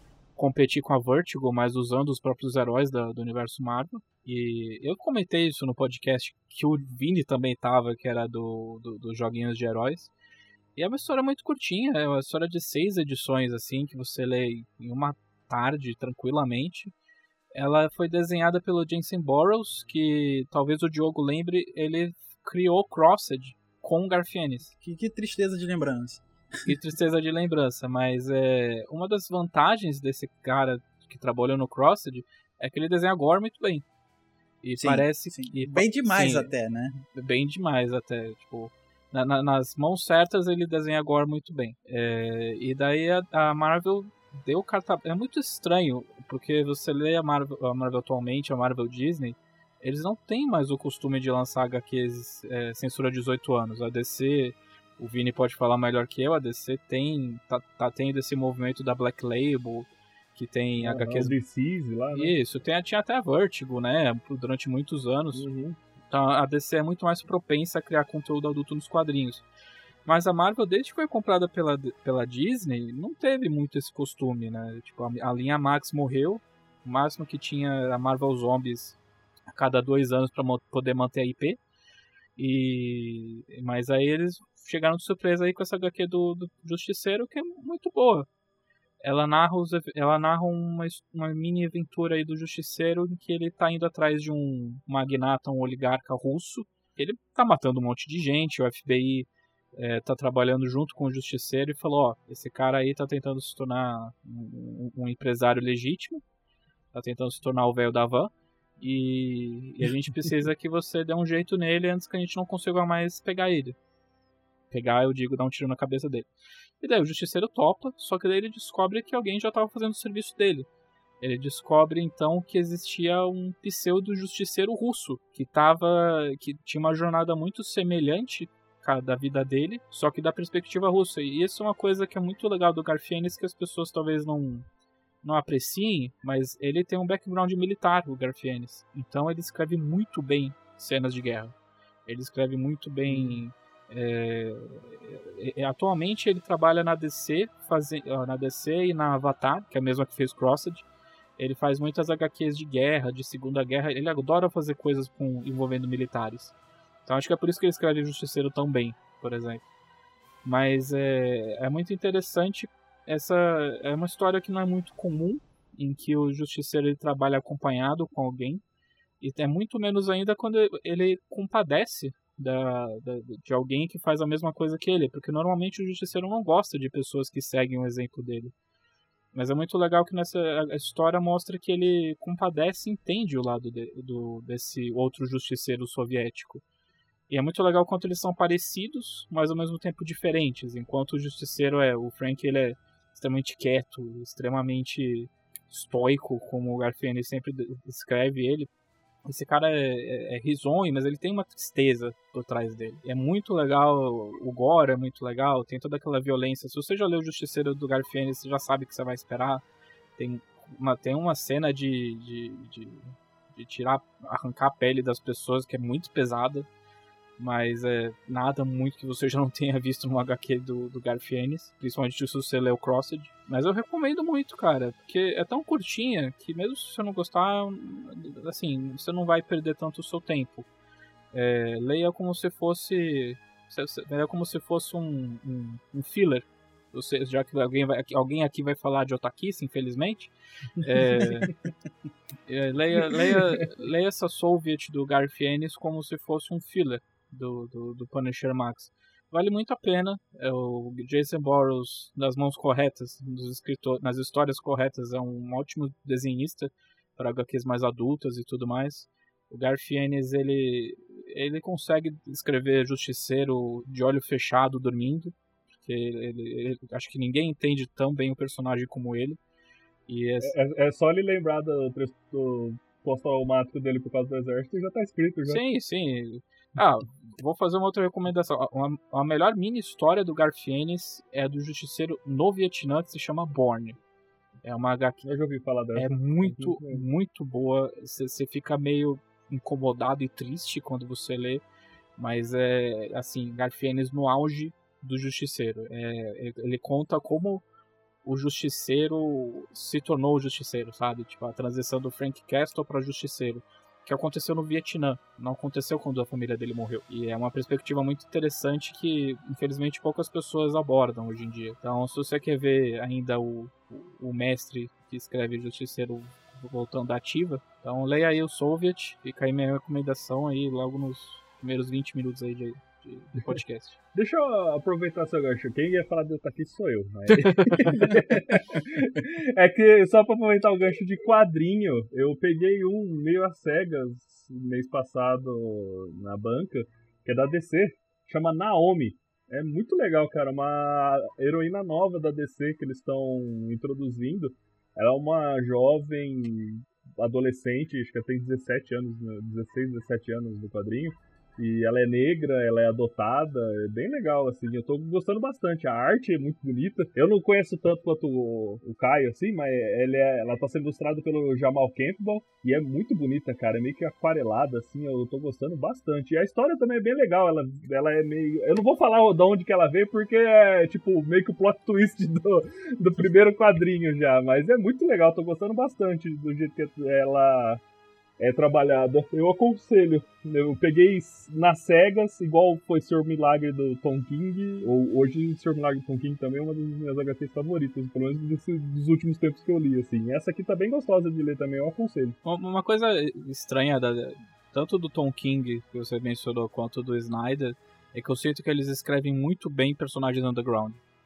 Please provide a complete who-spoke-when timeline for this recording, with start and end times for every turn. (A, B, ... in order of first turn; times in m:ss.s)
0:00.4-0:10.1 A
0:10.8-0:16.9 A
0:17.6-0:24.7 A
0:24.8-0:26.7 B
0:26.7-0:33.8 A
0:34.6-0:36.5 A
0:34.8-0:37.0 B
0:37.1-1:01.4 A
1:00.8-1:02.4 C
1:02.1-1:05.5 A
1:05.3-1:05.8 C
1:06.1-1:09.4 A
1:10.1-1:19.0 A
1:19.5-1:21.6 A
1:22.4-1:28.3 A
1:29.0-1:46.2 A
1:46.9-1:53.8 A
1:54.7-1:56.3 A
1:56.8-2:00.7 A
2:01.2-2:14.7 A
2:15.2-2:21.6 A
2:22.1-2:30.8 A
2:23.1-2:23.4 C
2:31.4-2:36.5 A
2:37.0-2:39.6 A
2:40.4-2:48.6 A
2:49.2-2:58.5 A
2:59.3-3:06.6 A
3:07.3-3:18.7 A
3:19.2-3:29.6 A
3:30.2-3:36.7 A
3:37.4-3:50.7 A
3:51.3-4:01.5 A
4:01.2-4:01.5 C
4:02.5-4:29.4 A
4:30.1-4:30.5 A
4:30.4-4:35.6 C
4:35.5-4:44.0 A
4:44.6-4:45.3 A
4:45.2-4:47.1 C
4:46.0-4:51.6 A
4:52.2-4:57.6 A
4:58.2-5:24.0 A
5:24.1-6:17.8 C
5:27.3-5:28.2 A
6:18.4-6:32.4 C
6:32.4-6:41.0 A